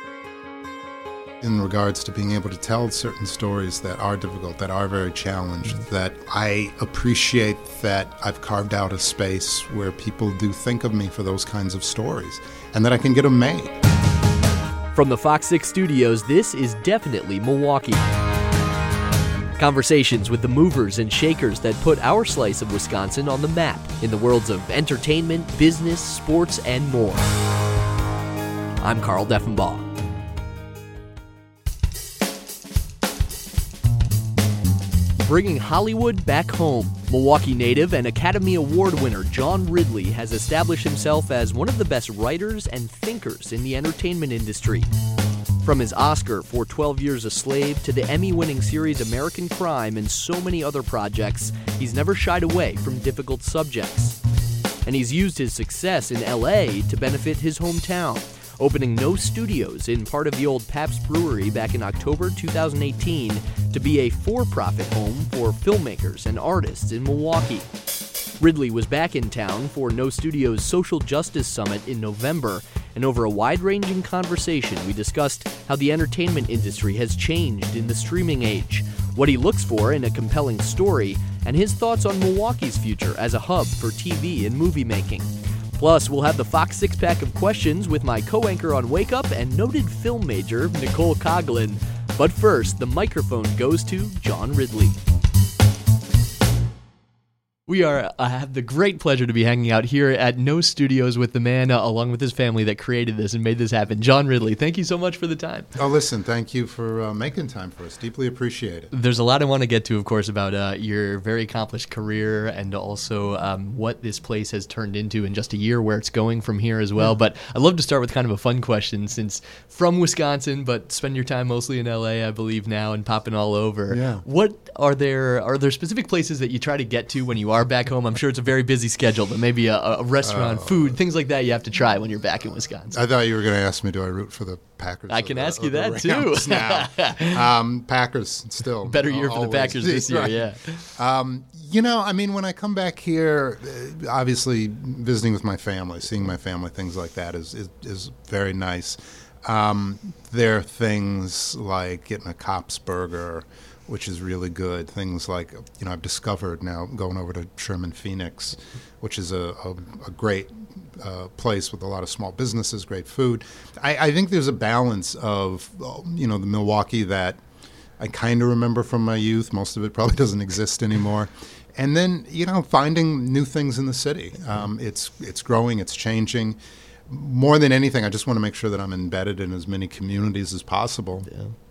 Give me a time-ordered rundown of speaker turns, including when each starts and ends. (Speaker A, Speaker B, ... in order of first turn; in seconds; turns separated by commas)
Speaker A: 1.4-13.8, Speaker B: 14.9-18.1, Speaker B: 19.6-27.3, Speaker B: 28.8-29.9, Speaker B: 35.2-44.9, Speaker B: 45.6-54.2, Speaker B: 54.9-67.7, Speaker B: 68.4-95.0, Speaker B: 97.7-105.7, Speaker A: 105.8-108.9, Speaker B: 108.9-133.0, Speaker A: 123.9-124.2, Speaker A: 130.2-131.0, Speaker A: 132.9-167.4, Speaker B: 135.1-137.5, Speaker B: 138.8-140.9, Speaker A: 168.0-181.3, Speaker B: 181.3-181.5